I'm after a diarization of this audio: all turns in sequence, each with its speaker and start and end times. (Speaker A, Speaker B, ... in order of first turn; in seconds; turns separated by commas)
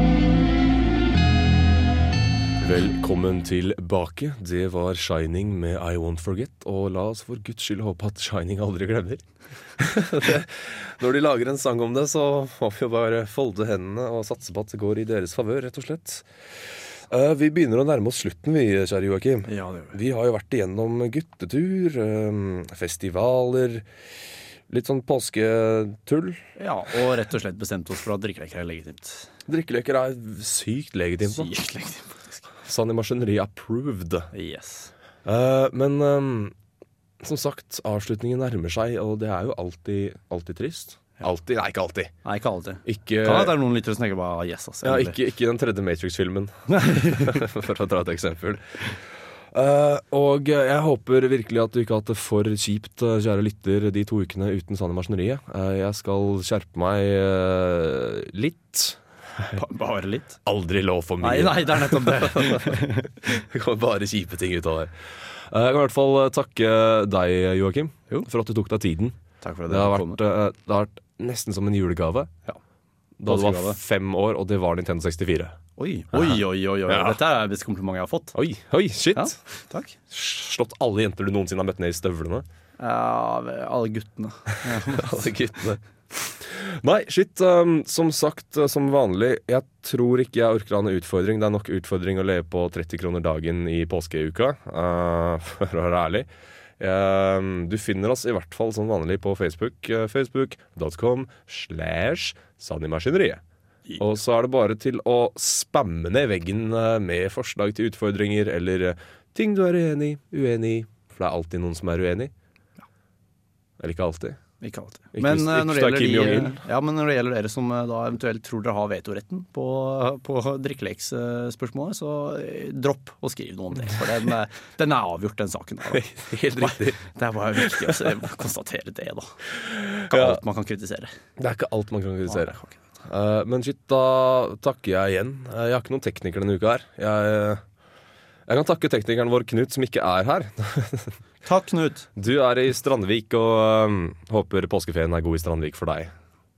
Speaker A: 2.6-9.2, Speaker A: 9.8-16.2, Speaker A: 17.1-23.9, Speaker B: 19.5-19.9, Speaker A: 24.7-26.4, Speaker B: 26.6-29.3, Speaker A: 29.5-31.5, Speaker B: 31.2-32.2, Speaker A: 32.6-34.3, Speaker B: 34.3-34.9, Speaker A: 35.2-36.5, Speaker A: 37.2-42.1, Speaker B: 42.2-45.1, Speaker A: 42.8-43.6, Speaker A: 44.8-48.8, Speaker B: 46.7-47.4, Speaker A: 49.5-59.6, Speaker B: 59.5-60.4, Speaker A: 60.4-72.3, Speaker B: 61.2-63.1, Speaker B: 69.4-70.2, Speaker A: 73.2-75.6, Speaker B: 73.2-73.8, Speaker B: 75.8-78.3, Speaker A: 76.1-77.2, Speaker A: 78.3-79.4, Speaker B: 79.1-80.0, Speaker A: 80.1-82.5, Speaker B: 82.8-85.3, Speaker A: 84.7-96.3, Speaker A: 96.8-103.4, Speaker A: 104.0-112.3, Speaker A: 113.8-114.4, Speaker B: 114.6-126.0, Speaker A: 115.1-116.6, Speaker A: 125.9-127.0, Speaker B: 126.5-129.3, Speaker A: 127.5-128.0, Speaker A: 129.6-130.4, Speaker B: 130.1-131.1, Speaker A: 131.4-137.6, Speaker B: 132.3-132.8, Speaker A: 138.5-141.1, Speaker B: 141.4-142.1, Speaker A: 142.2-146.1